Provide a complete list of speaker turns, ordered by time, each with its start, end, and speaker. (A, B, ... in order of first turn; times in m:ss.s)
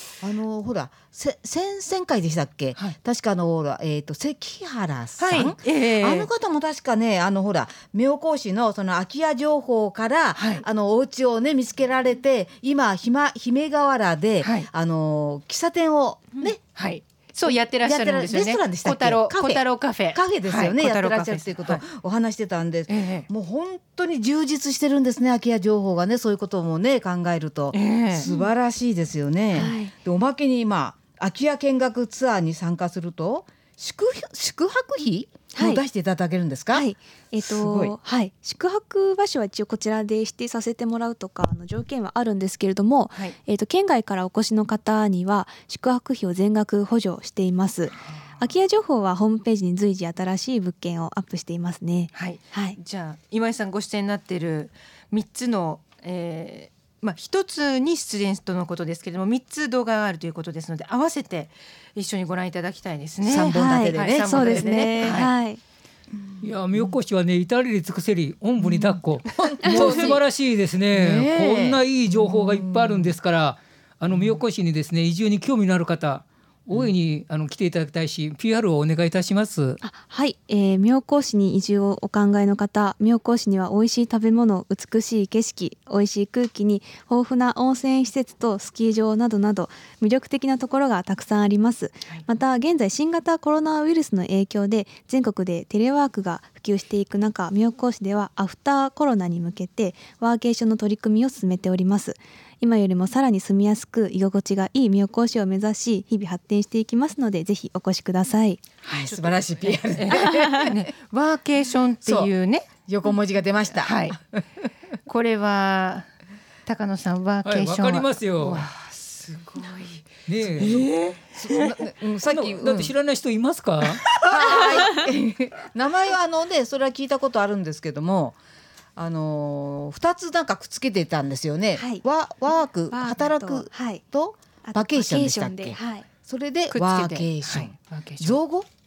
0:00.2-0:16.6 A
0:05.2-0:06.3 B
0:10.4-0:10.6 B
0:14.4-0:14.7 B
0:16.4-0:21.8 B
0:17.7-0:36.8 A
0:22.9-0:23.2 B
0:27.7-0:28.3 B
0:28.2-0:28.5 C
0:29.5-0:29.9 C
0:35.5-0:35.8 C
0:36.7-0:52.8 C
0:37.4-0:37.9 A
0:48.0-0:48.4 B
0:52.1-1:05.3 B
1:03.2-1:04.8 A
1:03.5-1:05.6 C
1:06.2-1:06.9 A
1:06.4-1:19.8 D
1:08.6-1:10.2 A
1:10.9-1:13.2 A
1:14.1-1:14.4 A
1:19.8-1:48.6 C
1:48.8-1:50.8 A
1:48.8-1:52.7 B
1:52.0-1:52.3 A
1:52.8-1:54.6 A
1:53.8-1:54.2 B
1:55.0-1:56.1 B
1:56.6-2:01.7 B
1:57.4-1:58.7 D
2:00.3-2:00.8 D
2:01.3-2:02.9 A
2:02.2-2:04.0 D
2:04.2-2:08.4 A
2:09.0-2:18.7 A
2:11.7-2:12.0 C
2:12.9-2:14.0 C
2:14.6-2:16.0 C
2:16.7-2:18.4 B